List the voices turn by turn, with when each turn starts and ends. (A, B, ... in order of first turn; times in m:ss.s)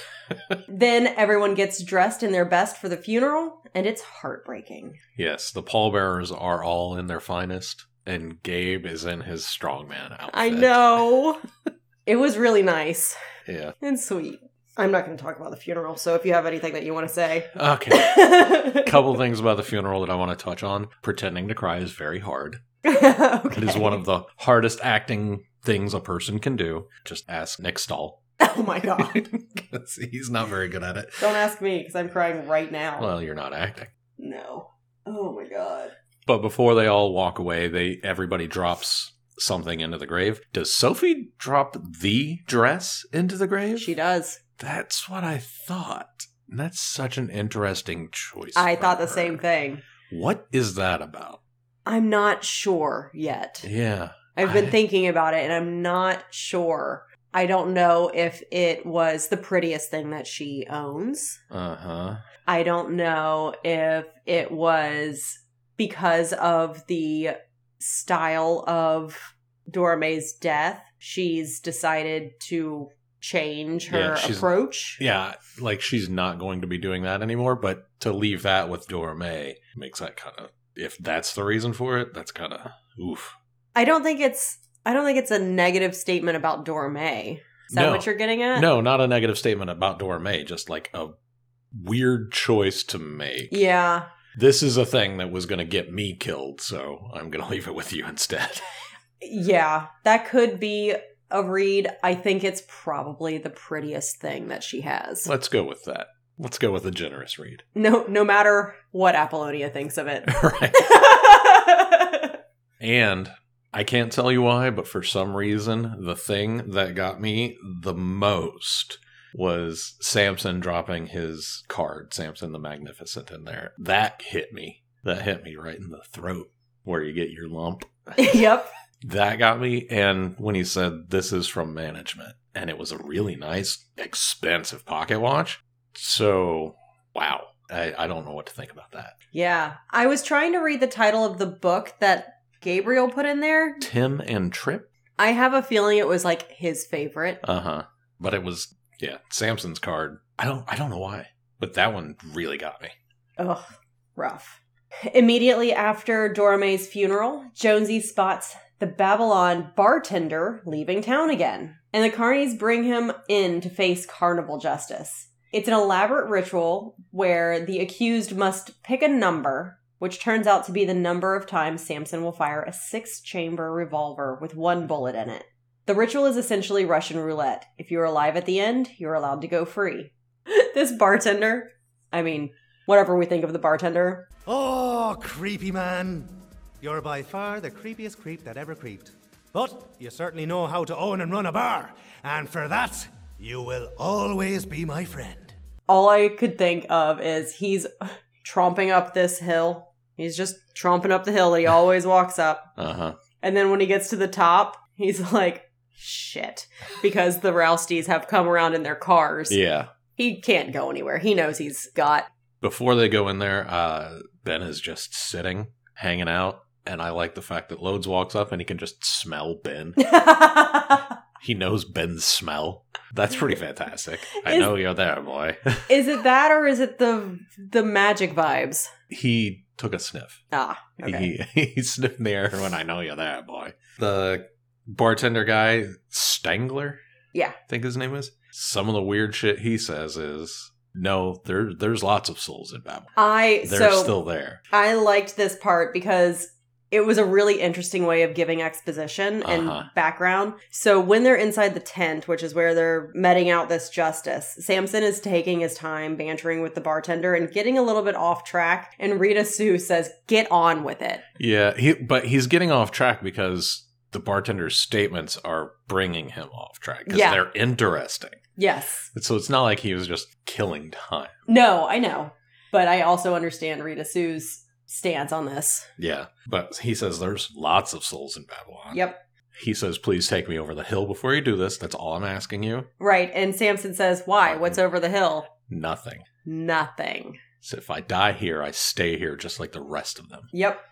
0:00.7-0:05.0 A
0:05.2-0:11.1 B
0:10.3-0:11.4 A
0:12.0-0:13.2 A
0:13.4-0:13.7 B
0:13.8-0:19.0 A
0:17.5-0:22.6 B
0:22.8-0:24.0 A
0:23.5-0:28.2 B
0:28.4-0:29.2 A
0:29.0-0:31.3 B
0:31.2-0:33.1 A
0:33.0-0:33.9 B
0:34.2-0:35.9 A
0:36.3-0:43.9 B
0:43.8-0:44.4 A
0:44.6-0:49.4 B
0:48.5-0:49.8 A
0:50.0-0:51.4 B
0:51.8-0:53.7 A
0:53.6-0:54.8 B
0:54.4-1:01.4 A
1:01.5-1:02.2 B
1:02.4-1:15.0 A
1:13.9-1:23.3 B
1:23.7-1:28.7 A
1:27.7-1:31.1 B
1:31.7-1:33.6 B
1:33.5-1:34.1 A
1:34.3-1:38.6 B
1:39.2-1:45.3 A
1:45.2-1:47.6 B
1:47.7-1:52.4 A
1:50.3-1:51.0 B
1:52.8-2:08.4 B
2:08.2-2:08.7 A
2:09.0-2:19.2 B
2:19.3-2:23.8 A
2:23.8-2:24.9 B
2:25.2-2:27.4 A
2:27.4-2:32.9 B
2:33.4-3:04.3 A
3:04.4-3:15.6 C
3:15.9-3:22.7 A
3:22.8-3:23.2 B
3:23.4-3:29.6 A
3:29.5-3:29.9 B
3:30.2-3:32.3 A
3:32.6-3:40.1 B
3:40.0-3:41.1 A
3:41.4-3:46.0 B
3:44.4-3:44.7 A
3:45.9-3:48.9 A
3:49.1-3:50.4 B
3:50.5-3:51.3 A
3:51.0-3:57.0 B
3:57.7-4:04.6 B
4:03.2-4:04.1 A
4:04.7-4:21.2 A
4:09.4-4:09.9 B
4:21.4-4:28.4 B
4:27.1-4:27.4 A
4:28.6-4:29.1 A
4:29.1-4:31.4 B
4:31.5-4:35.9 A
4:36.0-4:39.0 B
4:38.9-4:39.2 A
4:39.5-4:42.9 B
4:43.0-4:45.5 A
4:44.4-4:44.8 B
4:45.6-4:46.2 B
4:46.4-4:47.4 A
4:47.6-4:50.5 B
4:50.5-4:50.8 A